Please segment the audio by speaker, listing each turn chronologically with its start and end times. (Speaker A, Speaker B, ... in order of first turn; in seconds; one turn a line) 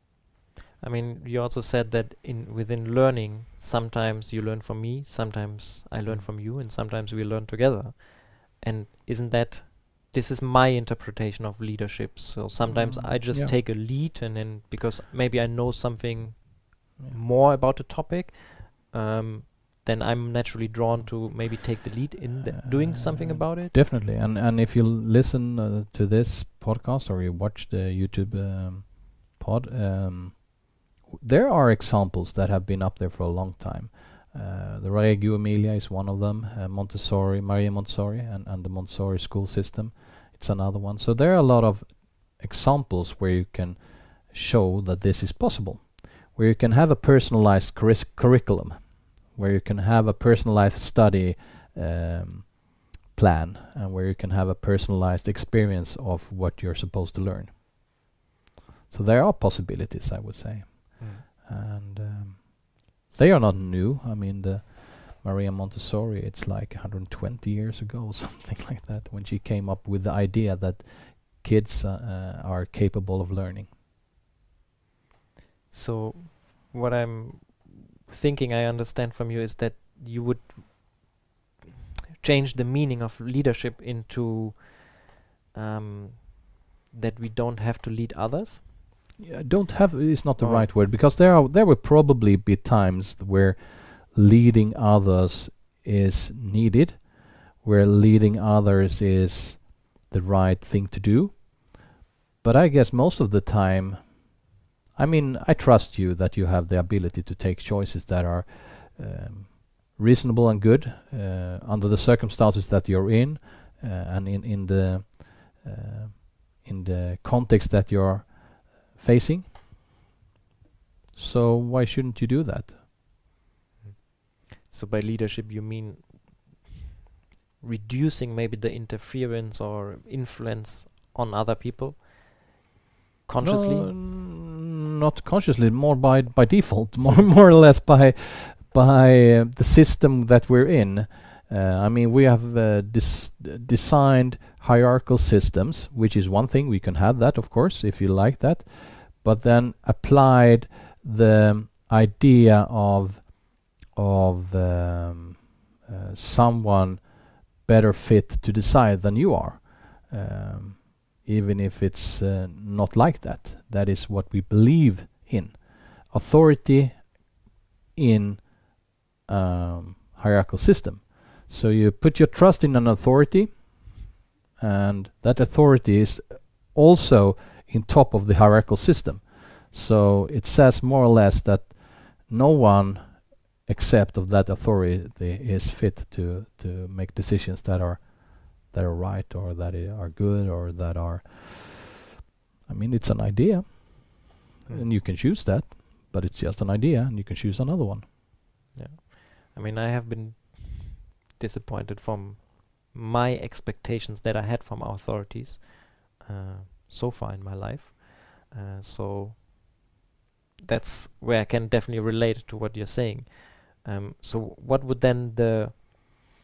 Speaker A: 0.8-23.7
Speaker B: 12.7-13.5
Speaker B: 22.5-57.6
Speaker B: 58.9-73.7
Speaker A: 61.0-61.2
Speaker A: 75.7-81.2
Speaker A: 82.2-88.6
Speaker B: 89.2-101.9
Speaker A: 90.4-90.7
Speaker B: 102.4-119.5
Speaker B: 121.2-122.8
Speaker A: 123.8-126.7
Speaker A: 127.6-132.3
Speaker A: 133.2-133.9
Speaker B: 133.4-167.4
Speaker B: 167.9-174.0
Speaker B: 174.6-191.9
Speaker B: 192.7-198.0
Speaker A: 198.7-209.4
Speaker A: 210.6-216.1